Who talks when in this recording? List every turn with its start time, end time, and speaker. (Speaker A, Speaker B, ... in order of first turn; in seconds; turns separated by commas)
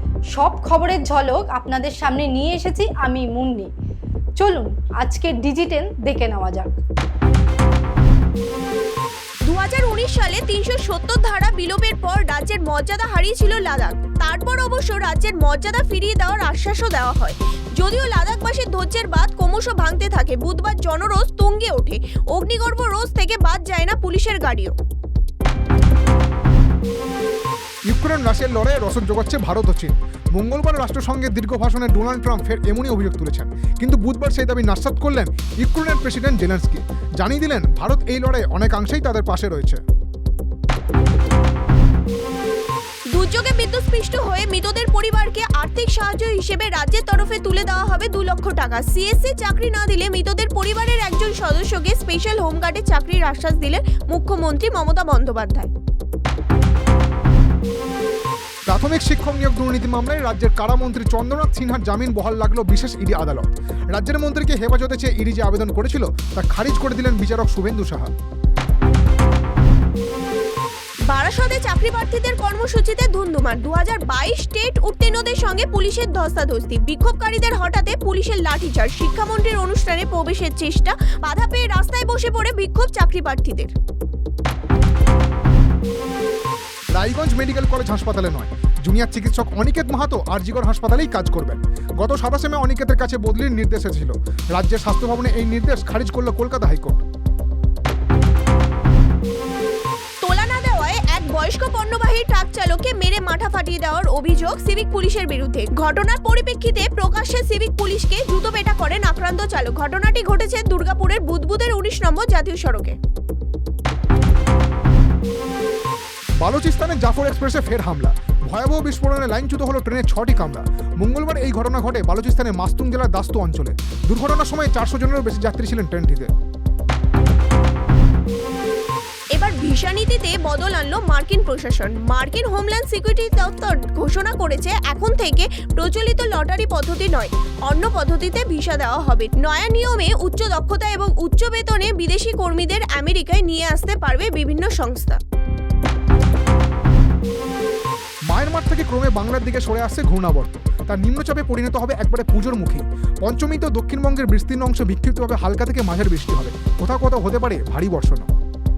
Speaker A: 0.3-3.7, Speaker A: 4.4-6.7, Speaker B: 9.4-24.7, Speaker C: 27.9-39.8, Speaker B: 43.1-55.7, Speaker C: 58.7-68.1, Speaker B: 71.1-83.7, Speaker C: 86.9-97.0, Speaker B: 100.2-113.0, Speaker C: 116.4-126.3, Speaker B: 129.3-145.2, Speaker C: 148.3-158.3